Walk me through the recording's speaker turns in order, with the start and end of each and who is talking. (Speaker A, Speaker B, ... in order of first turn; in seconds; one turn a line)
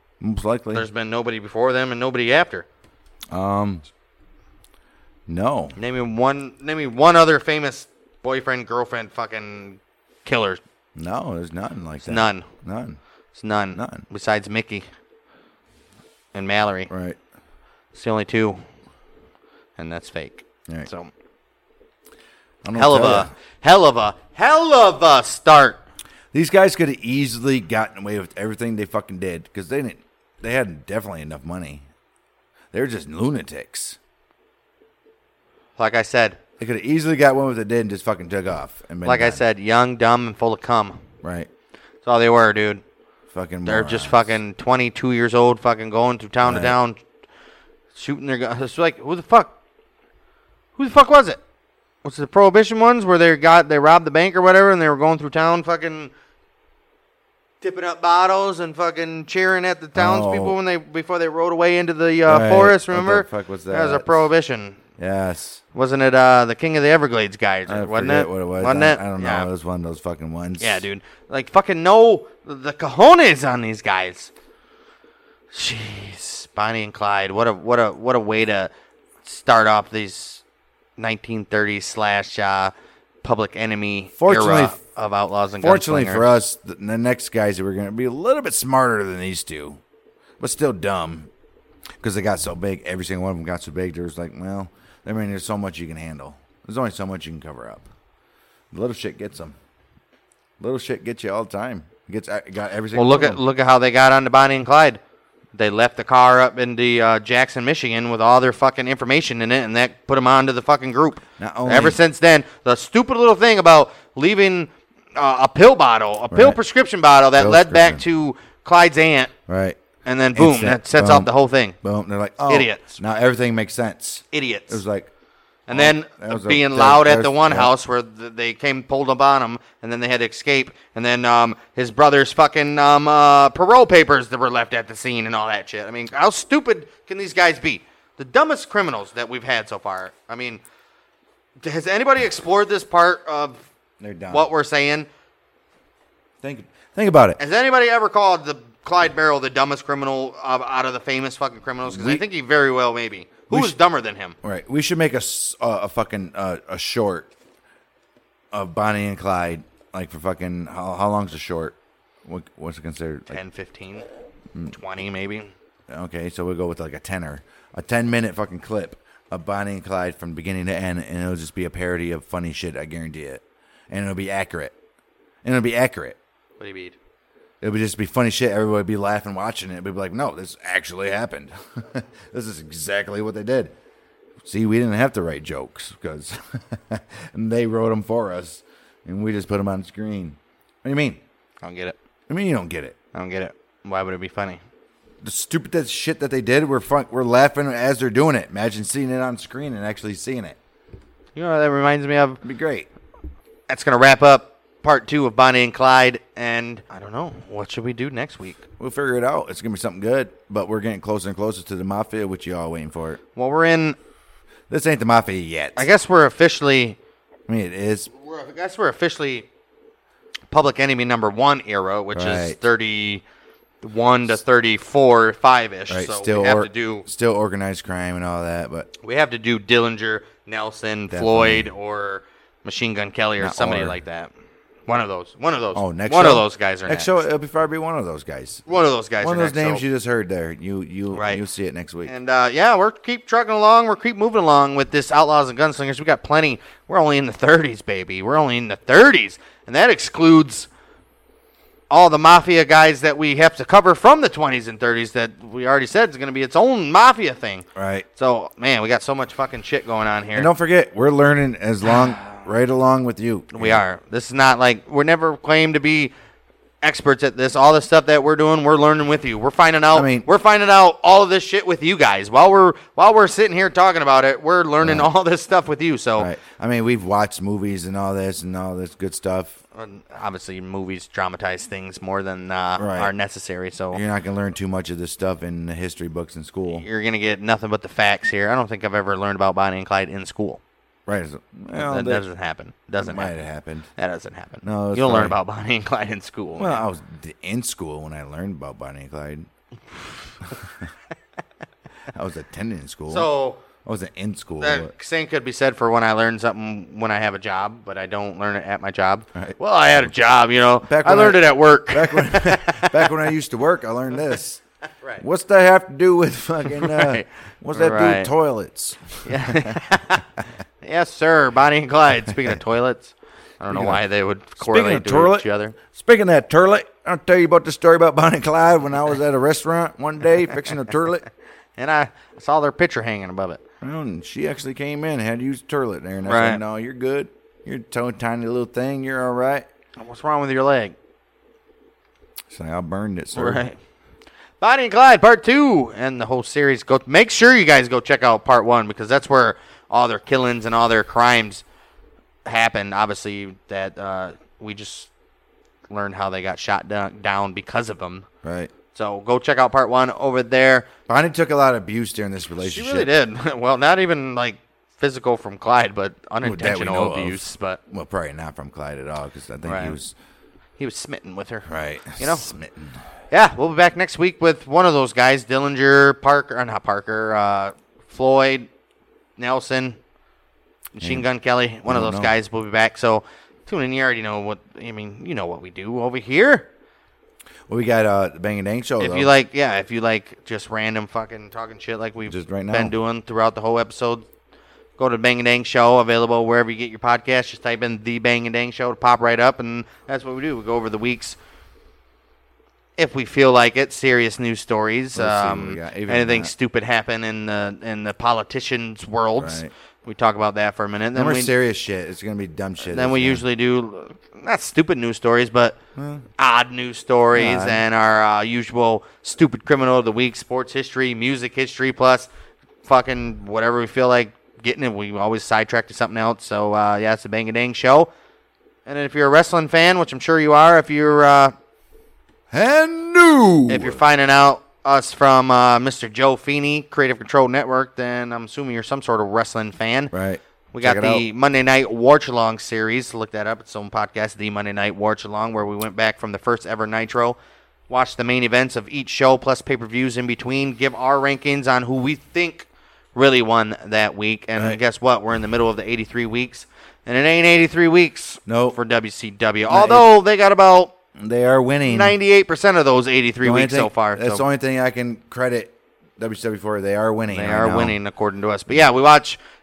Speaker A: 0.2-0.8
Speaker B: 0.7-2.6
Speaker A: 3.3-3.8
Speaker A: 5.3-5.8
Speaker B: 5.8-10.6
Speaker A: 10.9-13.0
Speaker B: 12.0-12.5
Speaker B: 13.3-14.9
Speaker A: 13.7-14.1
Speaker B: 16.3-16.9
Speaker A: 16.9-17.2
Speaker B: 17.9-18.6
Speaker B: 19.8-21.1
Speaker A: 22.6-23.3
Speaker B: 22.7-25.8
Speaker A: 26.3-31.8
Speaker A: 32.7-34.0
Speaker B: 35.8-36.4
Speaker A: 36.6-39.4
Speaker B: 39.0-41.0
Speaker A: 41.2-41.5
Speaker B: 42.0-42.8
Speaker A: 43.3-44.3
Speaker B: 43.6-47.0
Speaker A: 46.4-46.8
Speaker B: 47.9-49.5
Speaker B: 50.8-51.4
Speaker B: 52.0-56.1
Speaker B: 57.6-64.8
Speaker A: 60.0-60.6
Speaker A: 62.2-64.3
Speaker A: 65.0-65.6
Speaker B: 65.7-69.5
Speaker A: 67.7-70.9
Speaker B: 70.6-74.3
Speaker B: 75.5-78.7
Speaker B: 79.2-80.4
Speaker B: 81.0-82.7
Speaker B: 83.2-86.3
Speaker A: 84.2-84.8
Speaker A: 85.6-89.8
Speaker A: 90.4-91.3
Speaker A: 92.0-97.9
Speaker A: 98.7-99.5
Speaker A: 100.6-103.4
Speaker B: 102.9-105.0
Speaker B: 105.5-119.3
Speaker A: 111.4-112.0
Speaker A: 116.3-116.6
Speaker A: 117.3-118.0
Speaker A: 119.5-119.8
Speaker B: 120.0-121.8
Speaker A: 120.3-125.1
Speaker B: 122.5-123.0
Speaker B: 124.3-124.8
Speaker B: 125.7-140.6
Speaker A: 125.7-127.7
Speaker B: 141.6-143.6
Speaker A: 144.0-144.5
Speaker B: 144.3-145.1
Speaker A: 146.4-147.4
Speaker B: 147.4-154.3
Speaker A: 151.8-152.2
Speaker A: 153.5-153.8
Speaker A: 154.4-157.3
Speaker A: 158.5-163.4
Speaker B: 163.3-164.1
Speaker B: 164.7-165.5
Speaker A: 165.9-174.7
Speaker A: 175.4-176.2
Speaker B: 176.6-176.9
Speaker A: 177.6-183.7
Speaker A: 184.4-191.2
Speaker B: 191.6-191.9
Speaker A: 192.3-193.0
Speaker B: 193.1-194.6
Speaker A: 195.2-200.6
Speaker B: 201.3-202.4
Speaker A: 202.4-202.9
Speaker B: 203.7-208.6
Speaker A: 208.8-213.2
Speaker B: 213.3-214.0
Speaker A: 214.7-215.9
Speaker B: 215.7-217.0
Speaker A: 217.5-218.1
Speaker B: 218.1-219.5
Speaker B: 220.5-223.2
Speaker A: 222.1-222.6
Speaker B: 223.8-227.1
Speaker A: 225.9-228.9
Speaker B: 229.0-234.3
Speaker A: 231.1-231.7
Speaker A: 233.4-233.9
Speaker B: 234.9-237.2
Speaker A: 235.7-238.7
Speaker B: 238.7-239.8
Speaker A: 239.2-242.1
Speaker B: 241.1-241.4
Speaker B: 242.1-250.7
Speaker B: 251.9-260.5
Speaker A: 257.7-258.1
Speaker A: 260.3-263.8
Speaker B: 263.5-266.1
Speaker B: 266.8-276.3
Speaker A: 269.9-270.3
Speaker A: 274.8-275.1
Speaker A: 276.2-279.6
Speaker B: 279.7-284.0
Speaker A: 282.8-283.1
Speaker A: 283.9-286.8
Speaker B: 286.7-290.6
Speaker A: 291.1-292.3
Speaker B: 291.7-293.4
Speaker A: 293.0-293.9
Speaker B: 294.0-296.8
Speaker A: 294.6-295.4
Speaker A: 296.6-299.5
Speaker A: 300.4-300.9
Speaker A: 302.1-303.3
Speaker B: 303.1-303.6
Speaker A: 303.8-304.9
Speaker B: 304.6-313.3
Speaker A: 310.8-314.6
Speaker A: 315.2-319.8
Speaker B: 316.6-318.3
Speaker B: 319.2-320.2
Speaker B: 320.8-325.8
Speaker A: 323.7-324.0
Speaker A: 324.6-331.2
Speaker B: 331.8-333.6
Speaker A: 333.8-339.7
Speaker B: 336.2-336.6
Speaker B: 340.0-340.9
Speaker A: 342.5-343.6
Speaker B: 343.3-343.8
Speaker B: 344.6-351.6
Speaker B: 352.4-355.1
Speaker B: 355.9-358.2
Speaker A: 358.4-358.7
Speaker B: 358.9-360.9
Speaker A: 361.1-363.1
Speaker B: 362.6-367.8
Speaker A: 366.4-370.1
Speaker B: 369.6-370.0
Speaker B: 370.8-372.5
Speaker A: 371.6-373.0
Speaker B: 373.3-378.7
Speaker B: 379.4-380.0
Speaker B: 380.9-386.7
Speaker A: 381.0-381.3
Speaker A: 381.9-382.3
Speaker A: 387.7-389.3
Speaker B: 389.0-394.2
Speaker A: 392.2-392.9
Speaker B: 395.0-401.4
Speaker B: 403.0-411.5
Speaker A: 405.1-406.5
Speaker A: 409.4-409.7
Speaker A: 411.1-413.4
Speaker B: 412.8-415.8
Speaker A: 415.9-416.2
Speaker B: 416.4-422.3
Speaker A: 417.3-417.8
Speaker B: 422.8-428.1
Speaker B: 428.9-431.5
Speaker A: 432.5-434.0
Speaker B: 433.7-440.1
Speaker A: 440.1-441.2
Speaker B: 440.7-447.4
Speaker B: 447.9-460.9
Speaker A: 458.5-458.8
Speaker A: 459.7-460.1
Speaker A: 461.1-462.2
Speaker B: 461.9-464.4
Speaker A: 463.4-468.0
Speaker B: 467.3-469.4